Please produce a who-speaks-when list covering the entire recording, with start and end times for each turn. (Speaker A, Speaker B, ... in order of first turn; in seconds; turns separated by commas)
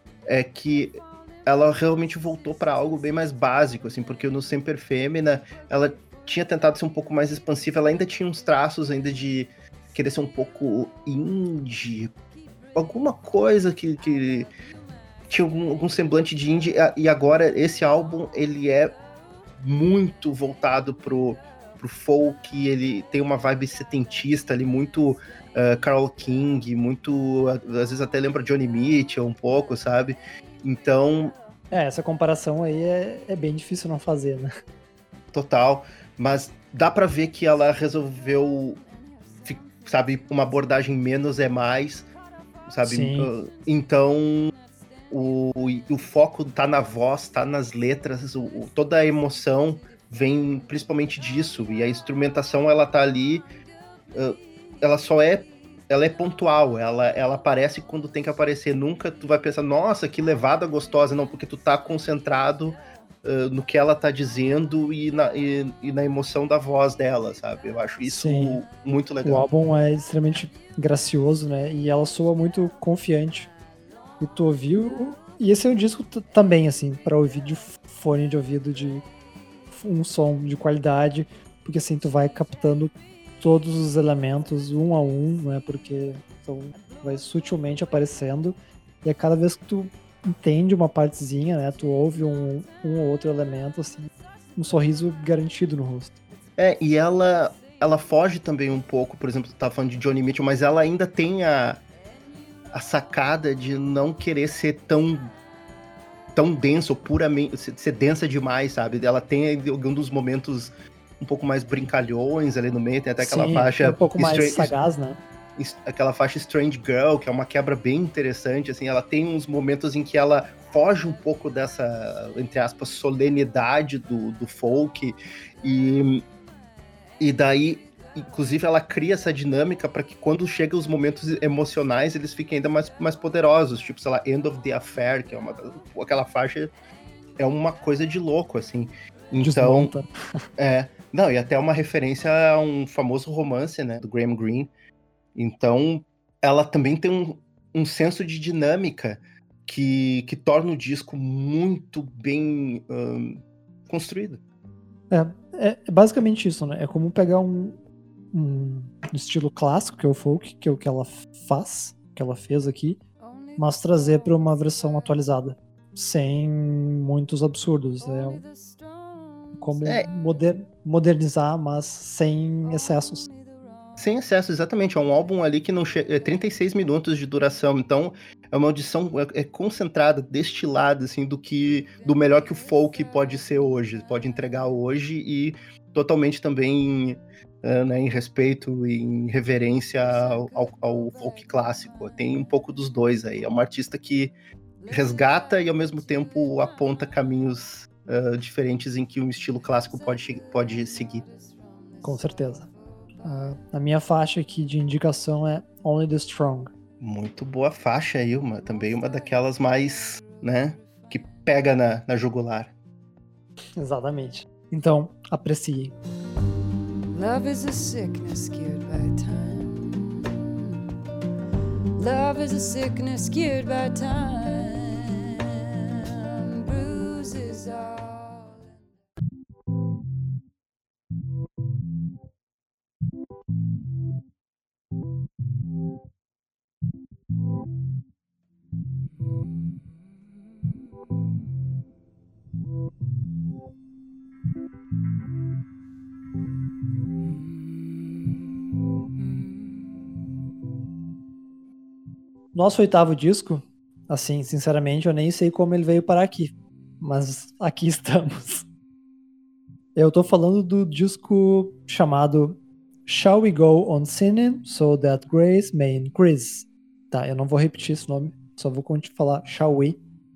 Speaker A: 0.3-12.1, Speaker A: 12.7-14.5, Speaker A: 15.3-19.0, Speaker A: 19.6-31.4, Speaker B: 31.7-34.5, Speaker A: 35.3-38.8, Speaker A: 39.4-42.1, Speaker A: 42.7-44.5, Speaker B: 42.8-43.3, Speaker A: 45.1-53.5, Speaker A: 54.1-69.5, Speaker B: 68.0-68.6, Speaker B: 69.2-73.5, Speaker B: 74.2-79.0, Speaker B: 79.7-96.1, Speaker A: 96.6-101.8, Speaker A: 102.7-105.3, Speaker A: 106.3-114.7, Speaker B: 113.2-115.2, Speaker A: 115.6-126.2, Speaker A: 127.2-136.7, Speaker A: 137.4-139.9, Speaker B: 139.4-140.4, Speaker A: 140.6-144.7, Speaker A: 145.3-154.4, Speaker B: 155.1-157.8, Speaker B: 158.3-163.0, Speaker B: 163.6-168.4, Speaker B: 169.5-173.3, Speaker A: 174.0-194.3, Speaker A: 194.9-201.3, Speaker B: 202.0-202.7, Speaker B: 203.2-206.7, Speaker A: 207.0-212.7, Speaker B: 213.8-215.9, Speaker C: 217.1-220.0, Speaker C: 222.0-228.6, Speaker B: 252.5-258.6, Speaker B: 259.9-270.0